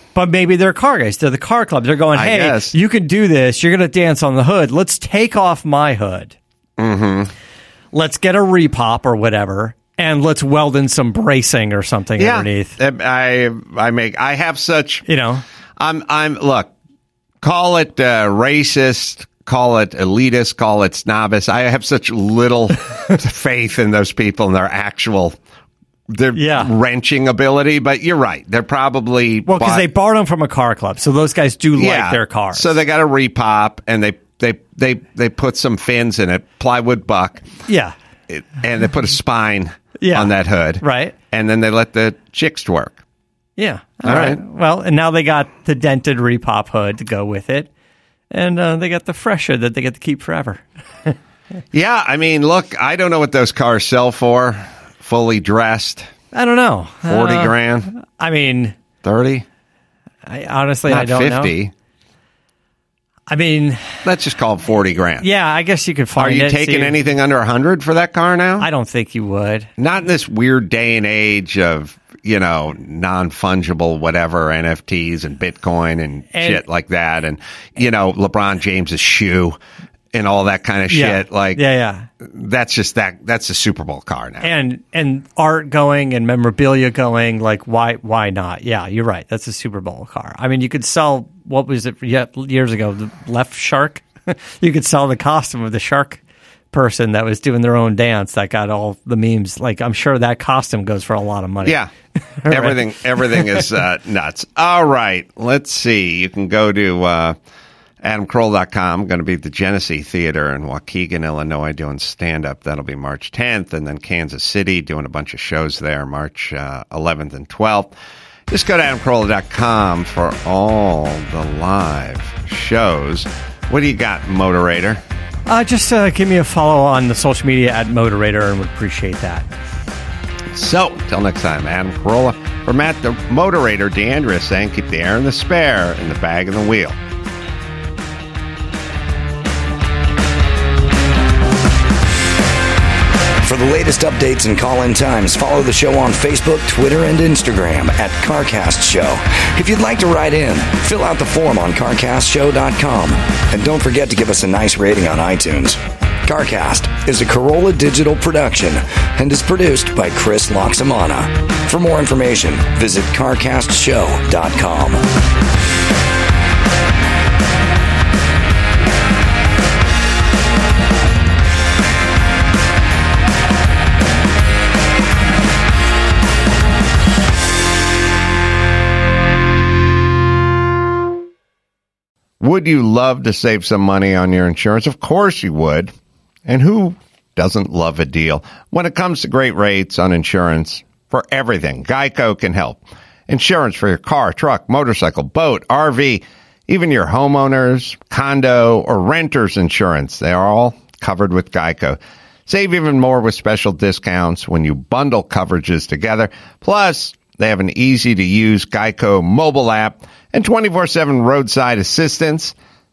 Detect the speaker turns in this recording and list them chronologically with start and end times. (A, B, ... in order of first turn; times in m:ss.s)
0:00.2-0:06.4 A
0:02.1-0:02.8 B
0:06.8-0:07.3 B
0:07.9-0:12.8 A
0:12.2-0:15.0 B
0:15.1-0:15.4 A
0:15.8-0:16.7 B
0:17.4-0:25.4 B
0:26.1-0:29.8 B
0:26.3-0:26.7 A
0:29.5-0:32.7 A
0:31.8-0:37.4 B
0:37.7-0:38.0 A
0:38.3-0:43.0 B
0:40.0-0:41.2 A
0:43.6-0:47.7 A
0:44.0-0:44.4 B
0:48.3-0:51.2 A
0:51.7-0:56.1 B
0:56.3-0:58.8 A
0:57.1-0:57.9 B
0:59.0-0:59.5 B
1:00.3-1:01.6 A
1:00.9-1:01.7 B
1:03.3-1:04.0 A
1:04.0-1:05.3 B
1:05.2-1:07.0 A
1:06.2-1:08.7 B
1:08.6-1:09.7 A
1:09.8-1:19.6 B
1:16.3-1:16.6 A
1:20.1-1:21.6 B
1:20.9-1:22.1 A
1:22.2-1:24.5 B
1:24.4-1:36.2 A
1:36.7-1:41.8 A
1:41.6-1:41.9 B
1:42.4-1:43.6 A
1:42.5-1:47.4 B
1:48.0-1:57.9 B
1:58.5-2:05.0 B
2:05.5-2:09.5 A
2:10.5-2:17.0 B
2:23.4-2:45.0 C
3:02.4-3:05.9 B
3:06.5-3:32.6 B